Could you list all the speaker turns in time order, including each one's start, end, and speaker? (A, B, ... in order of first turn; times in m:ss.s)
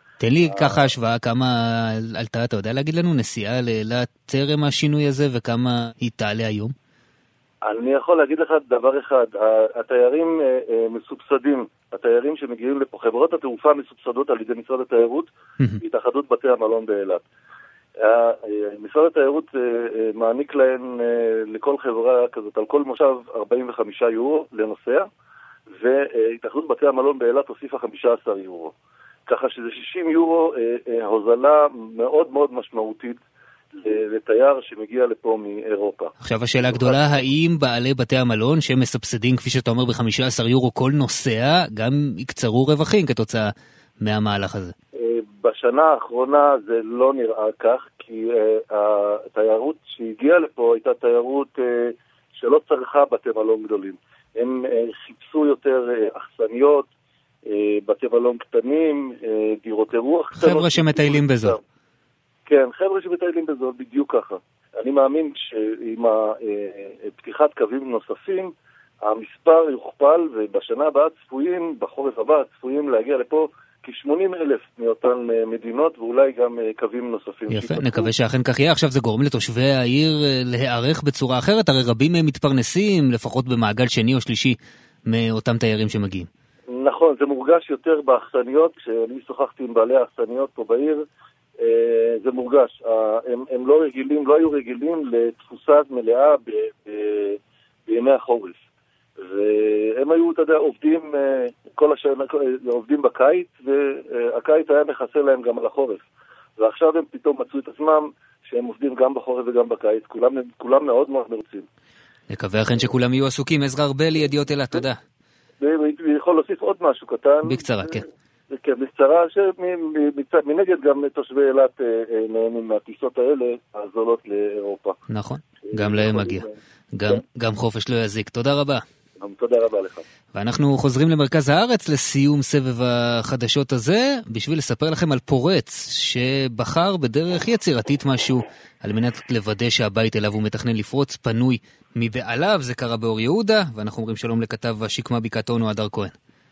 0:00.2-0:06.7 A
0:00.5-0:00.9 B
0:07.6-0:15.3 B
0:15.8-0:17.2 B
0:18.0-0:25.1 B
0:25.7-0:28.7 B
0:29.3-0:33.2 B
0:33.8-0:36.1 B
0:36.2-0:44.7 A
0:36.6-0:37.2 B
0:45.0-0:56.9 B
0:57.5-1:01.6 B
1:00.4-1:01.6 A
1:02.5-1:08.5 B
1:09.0-1:18.1 B
1:17.5-1:26.3 A
1:26.7-1:31.0 B
1:31.6-1:38.6 B
1:39.2-1:46.0 B
1:46.6-1:51.7 B
1:52.3-1:55.0 A
1:55.6-2:05.0 B
1:57.5-1:58.0 A
2:05.1-2:06.4 A
2:05.7-2:06.6 B
2:07.0-2:08.8 A
2:09.2-2:10.0 B
2:10.3-2:26.1 A